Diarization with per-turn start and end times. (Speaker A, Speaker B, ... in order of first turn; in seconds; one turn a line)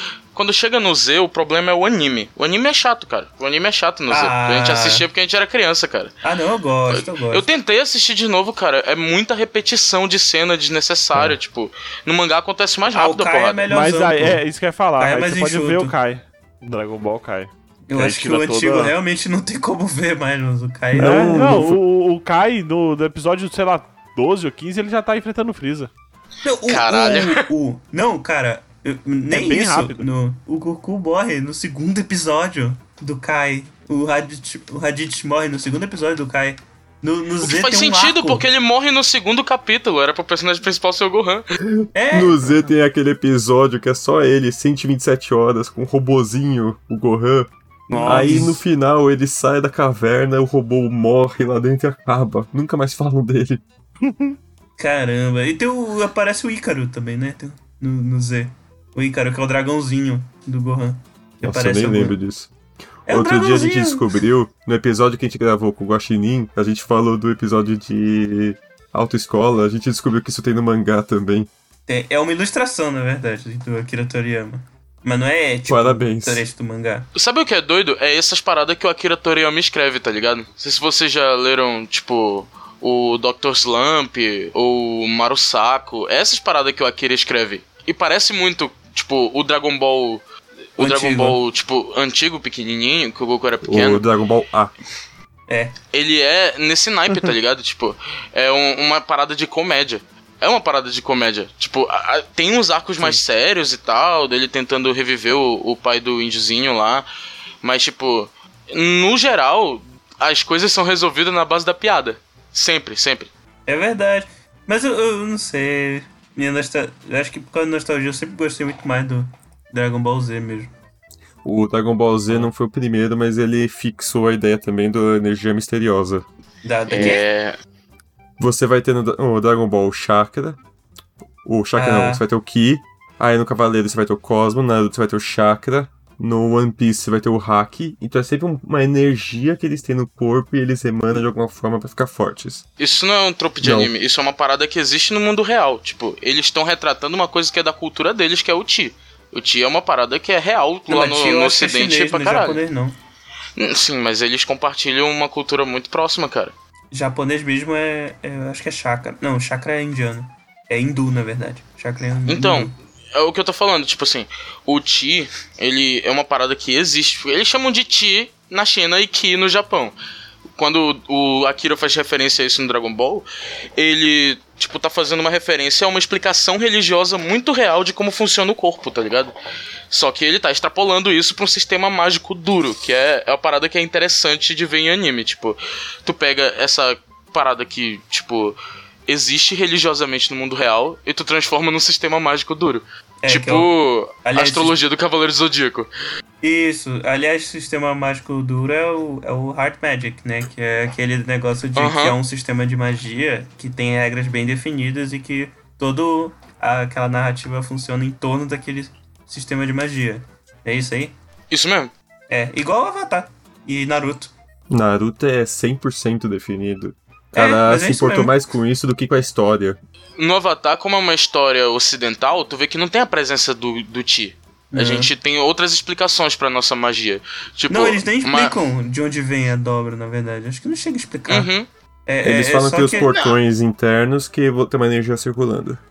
Speaker A: 0.3-6.1
Speaker B: 4.1-5.0
Speaker B: 6.2-7.5
Speaker A: 6.9-13.7
Speaker B: 12.9-14.4
Speaker C: 13.7-18.9
Speaker B: 15.0-15.9
Speaker B: 17.9-21.5
Speaker D: 20.9-21.8
Speaker C: 20.9-25.9
Speaker B: 26.4-38.4
Speaker A: 26.6-27.4
Speaker C: 29.3-30.0
Speaker A: 37.4-41.4
Speaker D: 41.6-47.5
Speaker B: 41.9-42.6
Speaker C: 47.9-48.6
Speaker B: 47.9-48.5
Speaker D: 48.0-53.6
Speaker C: 54.0-54.4
Speaker B: 54.8-62.2
Speaker D: 61.4-62.5
Speaker B: 63.1-64.0
Speaker D: 63.1-71.5
Speaker B: 71.9-77.1
Speaker D: 75.7-76.4
Speaker A: 77.1-90.2
Speaker A: 90.8-94.0
Speaker B: 90.8-91.4
Speaker D: 93.6-94.7
Speaker B: 95.5-95.7
Speaker A: 95.9-107.0
Speaker A: 107.6-113.3
Speaker B: 113.7-120.7
Speaker D: 121.4-126.2
Speaker B: 126.6-127.2
Speaker A: 126.9-127.5
Speaker D: 128.4-130.6
Speaker D: 131.4-142.6
Speaker B: 131.8-132.2
Speaker A: 142.8-152.6
Speaker D: 143.6-143.9
Speaker B: 150.9-152.9
Speaker A: 153.6-156.5
Speaker B: 156.9-162.7
Speaker A: 162.3-169.9
Speaker A: 170.6-179.3
Speaker A: 179.9-195.9
Speaker B: 193.2-193.7
Speaker B: 194.2-194.7
Speaker B: 196.4-211.1
Speaker A: 201.8-202.2
Speaker A: 211.5-211.9
Speaker B: 212.3-214.3
Speaker D: 214.7-219.8
Speaker B: 217.3-218.3
Speaker A: 220.2-228.6
Speaker B: 224.7-225.1
Speaker B: 227.7-231.5
Speaker A: 231.3-231.7
Speaker B: 232.1-233.1
Speaker D: 232.2-235.8
Speaker A: 233.0-233.4